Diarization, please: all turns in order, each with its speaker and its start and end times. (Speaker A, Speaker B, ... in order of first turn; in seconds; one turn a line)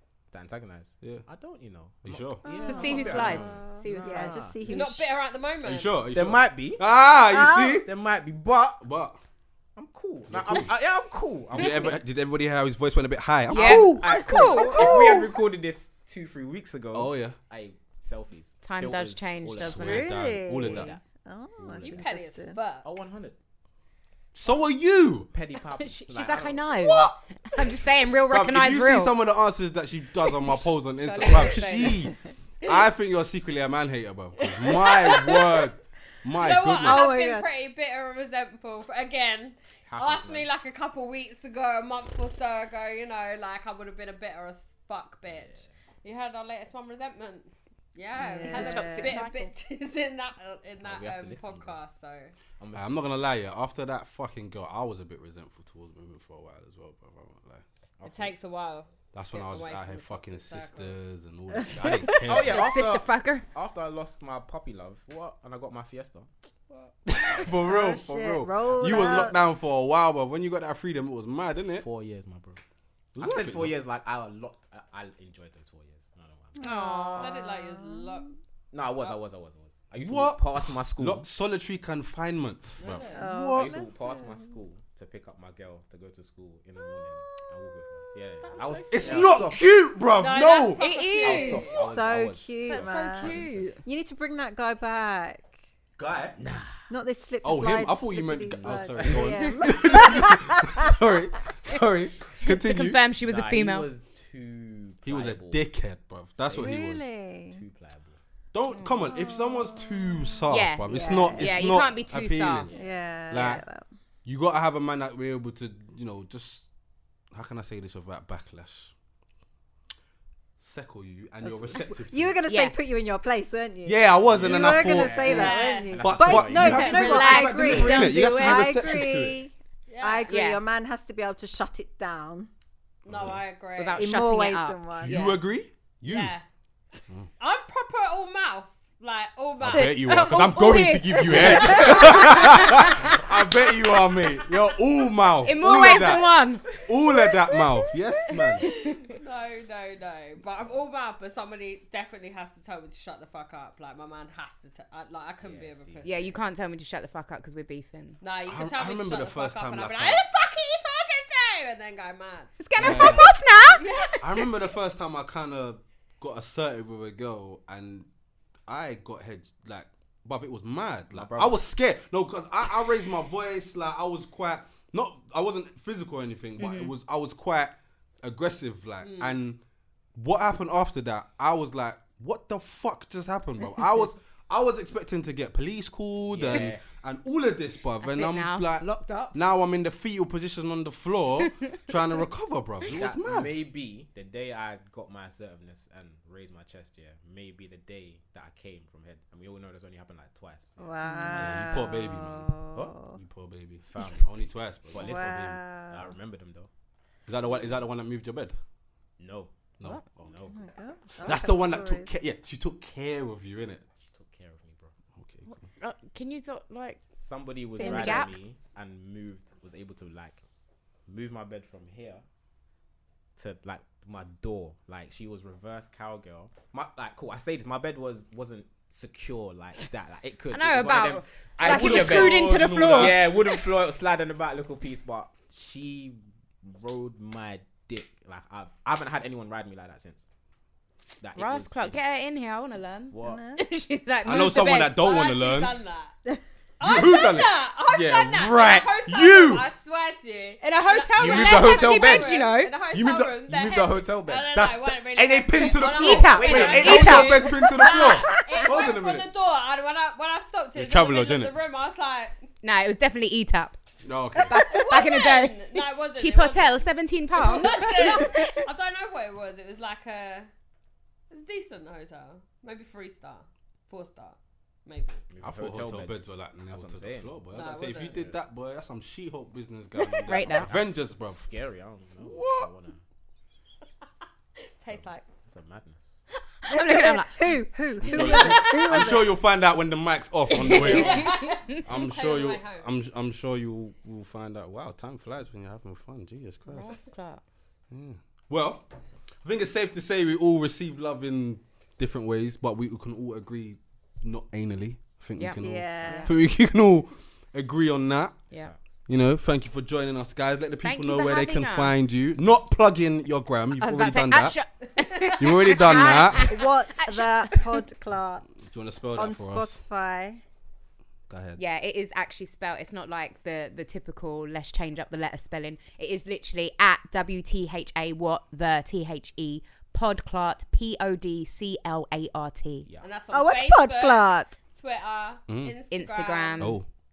Speaker A: 0.3-4.8
Speaker B: 2.0-2.5
Speaker C: 2.4-5.0
Speaker D: 2.7-4.5
Speaker E: 4.7-5.9
Speaker B: 5.6-7.9
Speaker A: 6.1-6.8
Speaker C: 7.3-7.8
Speaker A: 7.8-8.8
Speaker B: 8.8-9.2
Speaker A: 9.8-12.0
Speaker B: 10.3-10.8
Speaker B: 11.5-14.1
Speaker D: 13.5-15.2
Speaker C: 13.5-15.3
Speaker A: 13.5-21.0
Speaker B: 16.9-17.4
Speaker D: 18.6-20.1
Speaker B: 19.6-20.9
Speaker C: 19.8-22.6
Speaker A: 21.6-22.1
Speaker E: 21.8-22.9
Speaker A: 22.8-23.4
Speaker B: 24.4-25.3
Speaker A: 25.3-26.8
Speaker D: 25.8-29.1
Speaker B: 26.8-27.2
Speaker B: 28.3-37.1
Speaker D: 31.0-32.1
Speaker E: 34.4-35.7
Speaker E: 36.3-52.3
Speaker C: 36.8-37.5
Speaker A: 39.9-40.5
Speaker A: 45.3-45.7
Speaker C: 48.2-49.2
Speaker D: 48.5-49.5
Speaker A: 50.8-51.8
Speaker A: 52.6-53.1
Speaker B: 52.7-57.6
Speaker A: 58.0-58.3
Speaker E: 58.0-61.0
Speaker B: 59.1-62.7
Speaker C: 61.6-62.2
Speaker A: 62.0-66.3
Speaker D: 62.1-63.5
Speaker B: 67.1-71.9
Speaker C: 67.4-69.4
Speaker A: 68.7-69.3
Speaker A: 71.8-72.6
Speaker B: 73.2-73.8
Speaker A: 73.2-76.6
Speaker C: 76.6-78.2
Speaker D: 76.6-77.3
Speaker E: 76.6-78.3
Speaker A: 78.7-81.2
Speaker B: 80.0-83.8
Speaker E: 82.8-83.2
Speaker A: 82.8-89.7
Speaker C: 83.1-83.9
Speaker D: 88.4-89.6
Speaker B: 88.9-90.9
Speaker E: 90.2-91.9
Speaker D: 90.7-91.8
Speaker A: 91.2-93.7
Speaker C: 91.7-95.5
Speaker D: 92.7-93.8
Speaker B: 96.0-96.4
Speaker A: 96.4-96.9
Speaker C: 96.9-100.9
Speaker B: 97.4-103.0
Speaker A: 98.6-100.3
Speaker D: 102.4-103.9
Speaker A: 103.2-105.6
Speaker B: 105.0-107.1
Speaker A: 106.4-106.9
Speaker C: 106.6-107.6
Speaker A: 107.5-108.2
Speaker B: 108.5-112.7
Speaker D: 108.7-109.0
Speaker C: 108.9-111.8
Speaker D: 110.5-112.7
Speaker A: 112.7-113.0
Speaker C: 112.7-113.9
Speaker B: 113.3-113.6
Speaker B: 114.2-116.7
Speaker B: 117.3-118.9
Speaker B: 120.6-122.4
Speaker C: 121.4-132.5
Speaker D: 122.5-122.8
Speaker B: 123.8-129.4
Speaker A: 124.3-128.1
Speaker E: 125.2-125.9
Speaker D: 126.6-129.0
Speaker E: 129.9-130.3
Speaker D: 130.3-130.6
Speaker E: 133.0-134.0
Speaker A: 133.1-133.4
Speaker B: 133.1-133.4
Speaker D: 133.8-135.4
Speaker C: 133.9-135.3
Speaker B: 135.0-136.3
Speaker E: 136.1-136.4
Speaker E: 137.4-140.3
Speaker B: 139.6-146.3
Speaker D: 139.7-143.0
Speaker A: 141.3-142.5
Speaker C: 141.7-142.0
Speaker D: 145.4-146.7
Speaker B: 146.8-148.7
Speaker D: 148.6-149.1
Speaker E: 148.6-156.2
Speaker A: 155.4-156.3
Speaker D: 156.0-158.2
Speaker E: 158.2-164.4
Speaker B: 158.5-160.2
Speaker D: 162.6-164.2
Speaker B: 162.8-163.3
Speaker B: 164.2-168.1
Speaker B: 168.7-179.6
Speaker A: 171.1-171.6
Speaker D: 176.6-176.9
Speaker B: 180.2-193.6
Speaker A: 186.3-186.8
Speaker D: 188.0-189.3
Speaker A: 192.9-201.7
Speaker C: 200.8-203.2
Speaker D: 201.0-201.5
Speaker B: 201.3-202.6
Speaker B: 203.1-205.6
Speaker A: 203.8-204.3
Speaker A: 204.9-206.7
Speaker C: 205.0-206.1
Speaker B: 207.3-208.6
Speaker A: 209.2-210.6
Speaker B: 209.8-210.3
Speaker C: 210.5-212.1
Speaker B: 211.2-213.8
Speaker A: 214.0-214.9
Speaker B: 215.2-215.5
Speaker D: 215.5-217.0
Speaker A: 217.2-220.4
Speaker D: 217.8-218.4
Speaker C: 217.8-218.3
Speaker A: 221.1-222.2
Speaker A: 223.4-240.2
Speaker D: 230.5-233.3
Speaker B: 231.6-233.4
Speaker A: 241.2-242.4
Speaker D: 241.4-245.1
Speaker A: 243.1-243.5
Speaker C: 243.2-243.7
Speaker B: 244.2-245.8
Speaker E: 244.9-246.2
Speaker E: 246.8-262.3
Speaker B: 246.8-249.7
Speaker D: 250.6-252.7
Speaker A: 251.2-252.3
Speaker B: 252.9-253.4
Speaker A: 253.4-254.9
Speaker B: 254.6-259.3
Speaker A: 255.7-257.4
Speaker D: 255.9-257.5
Speaker C: 257.6-258.6
Speaker B: 260.8-261.5
Speaker D: 262.6-263.8
Speaker B: 264.0-264.6
Speaker D: 264.5-268.6
Speaker E: 264.7-270.5
Speaker E: 271.3-275.2
Speaker A: 275.3-278.4
Speaker B: 275.4-281.4
Speaker E: 277.5-278.2
Speaker D: 280.3-280.7
Speaker A: 280.5-283.0
Speaker B: 282.2-282.7
Speaker E: 284.8-285.3
Speaker A: 284.9-286.2
Speaker D: 286.6-287.6
Speaker C: 286.7-289.3
Speaker B: 288.0-296.9
Speaker E: 288.1-289.1
Speaker D: 290.5-291.8
Speaker E: 290.5-292.9
Speaker D: 296.7-297.4
Speaker B: 297.9-298.9
Speaker B: 299.4-308.4
Speaker D: 305.4-306.4
Speaker C: 305.6-306.4
Speaker B: 309.1-314.6
Speaker D: 310.8-312.0
Speaker D: 313.8-317.8
Speaker B: 315.4-316.6
Speaker C: 316.0-318.6
Speaker B: 318.6-319.8
Speaker C: 319.1-320.4
Speaker B: 321.3-321.6
Speaker D: 321.6-332.9
Speaker E: 333.0-336.7
Speaker C: 333.3-334.6
Speaker B: 335.5-335.8
Speaker D: 335.9-336.8
Speaker B: 336.6-336.9